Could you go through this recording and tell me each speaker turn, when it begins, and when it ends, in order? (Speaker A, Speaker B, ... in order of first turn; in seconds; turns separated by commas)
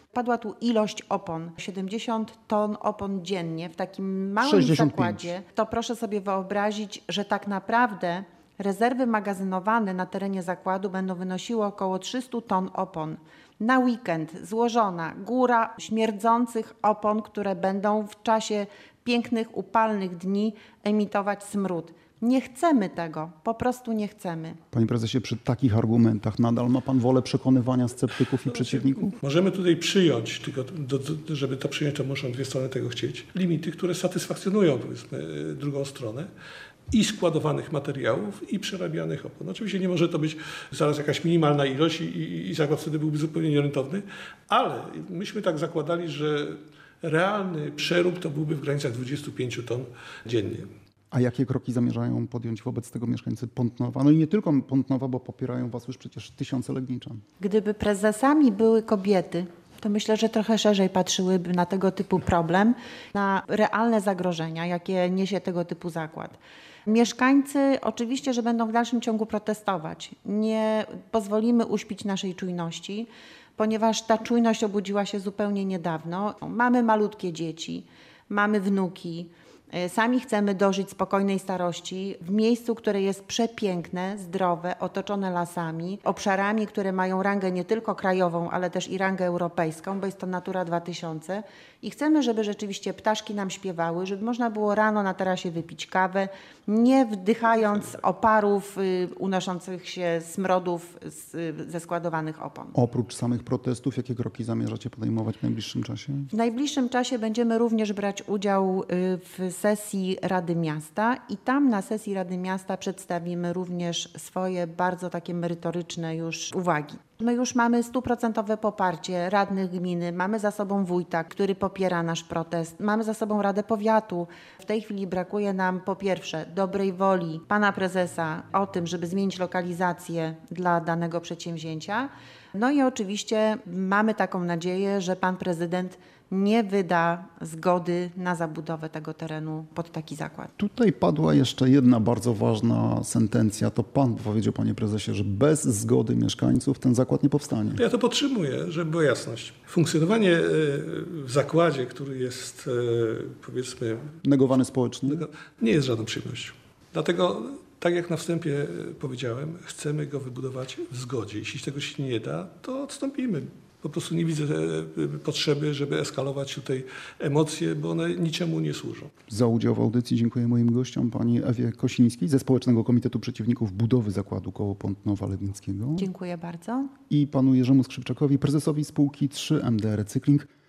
Speaker A: 0.1-24.6, Speaker B: 4.4-5.2, Speaker B: 24.7-29.1, Speaker C: 28.4-36.3, Speaker C: 36.9-50.7, Speaker B: 51.1-57.2, Speaker A: 57.4-102.7, Speaker B: 102.7-106.3, Speaker A: 106.3-140.5, Speaker B: 140.6-147.8, Speaker C: 147.7-154.2, Speaker B: 154.2-155.2, Speaker C: 155.1-169.1, Speaker B: 169.3-176.1, Speaker A: 176.0-176.9, Speaker B: 177.1-180.5